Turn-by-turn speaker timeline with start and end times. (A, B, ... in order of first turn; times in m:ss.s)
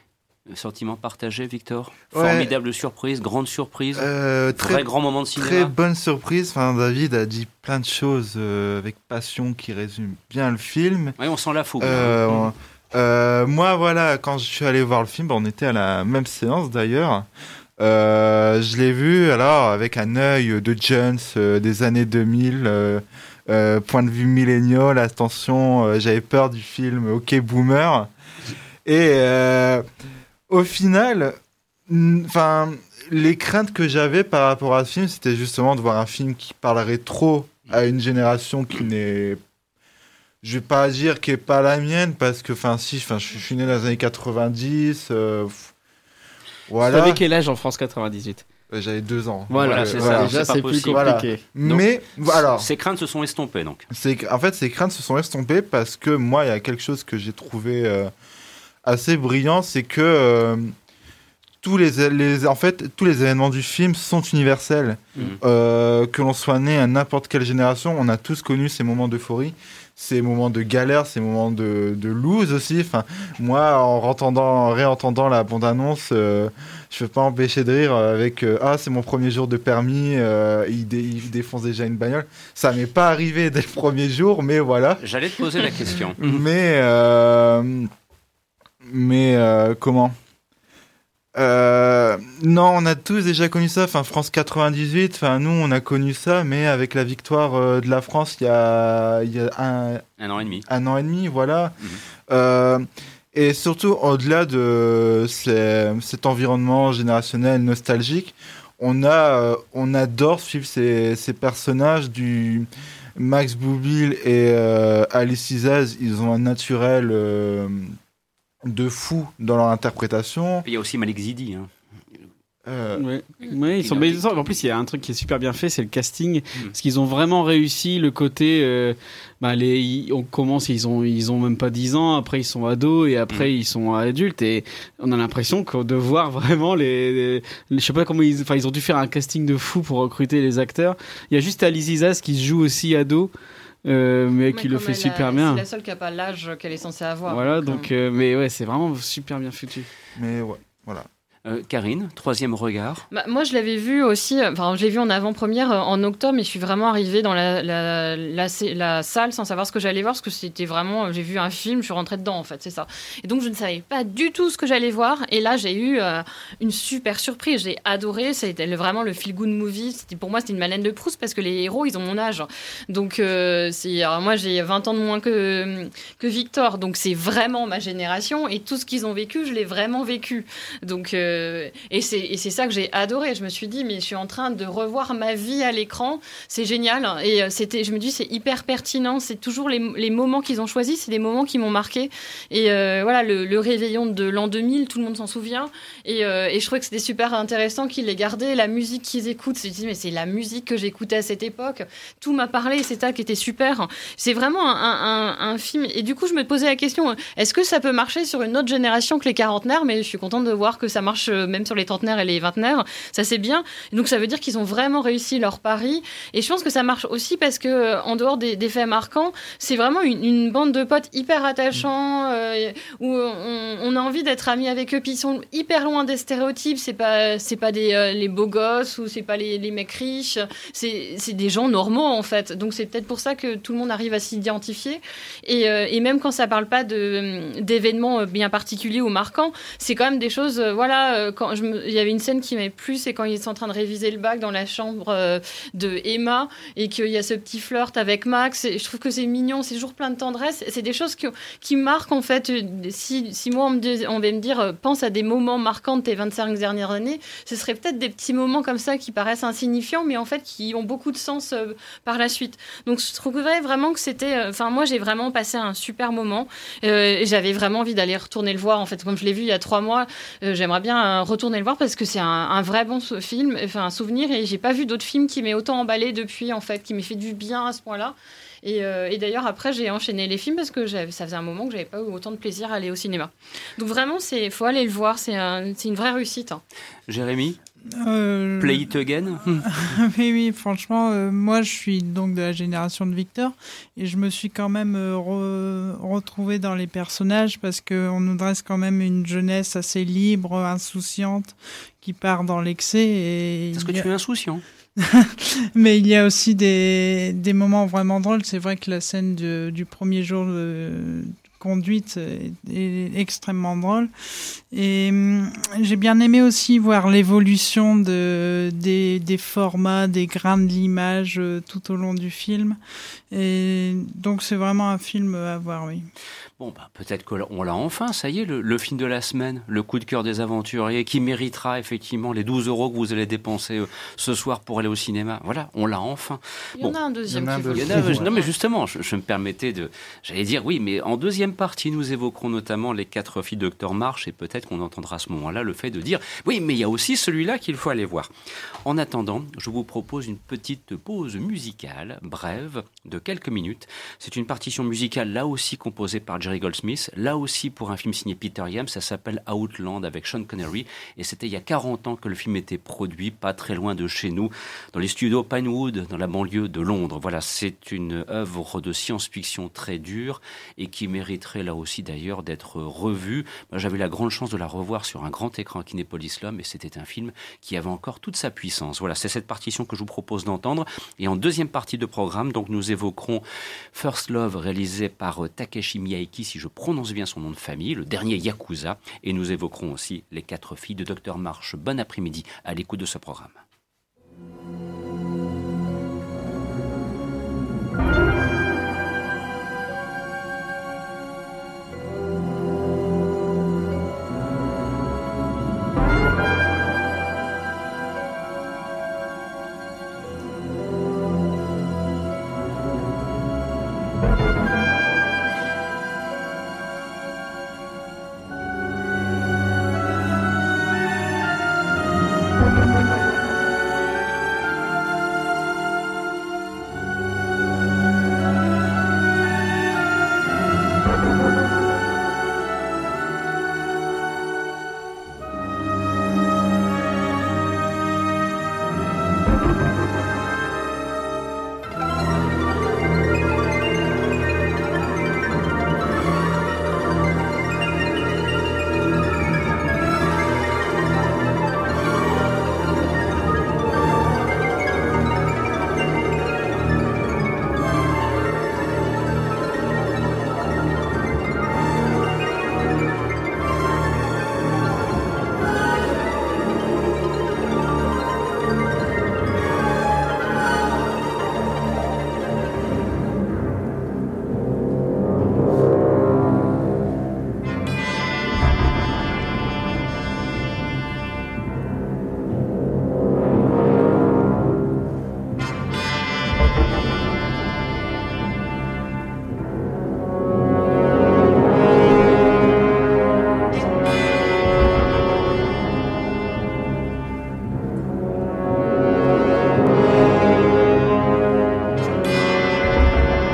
0:00.5-0:05.7 A
0:02.1-0:02.5 B
0:04.0-0:11.2 B
0:11.2-0:12.2 A
0:11.8-0:17.3 B
0:17.8-0:28.1 B
0:28.8-0:29.9 B
0:30.5-0:39.4 B
0:40.4-0:45.7 B
0:46.7-0:47.2 B
0:46.8-0:48.4 C
0:48.7-0:52.7 B
0:49.5-0:51.4 C
0:49.6-0:53.9 A
0:53.9-0:58.1 B
0:58.8-1:00.7 B
1:01.6-1:25.0 B
1:25.0-1:26.4 A
1:26.2-1:27.9 B
1:28.8-1:30.2 B
1:31.4-1:40.0 B
1:40.2-1:40.7 A
1:40.7-1:41.8 B
1:42.3-1:58.0 B
1:58.7-2:00.7 B
2:00.6-2:01.7 A
2:02.7-2:03.0 B
2:03.0-2:23.3 C
2:03.8-2:04.3 A
2:23.9-2:25.6 C
2:24.5-2:27.9 D
2:27.3-2:29.9 C
2:30.2-2:31.1 B
2:31.5-2:33.0 A
2:33.1-4:46.6 D
4:47.1-4:47.6 A
4:48.0-4:48.9 E
4:48.6-4:49.7 A
4:49.6-5:04.1 E
5:03.7-5:04.6 A
5:05.0-5:14.1 E
5:14.7-5:22.8 E
5:23.3-5:26.1 E
5:26.6-5:37.0 A
5:36.8-5:38.5 D
5:37.3-5:38.3 B
5:37.7-5:48.3 A
5:48.8-6:23.4 A
6:23.9-6:33.6 A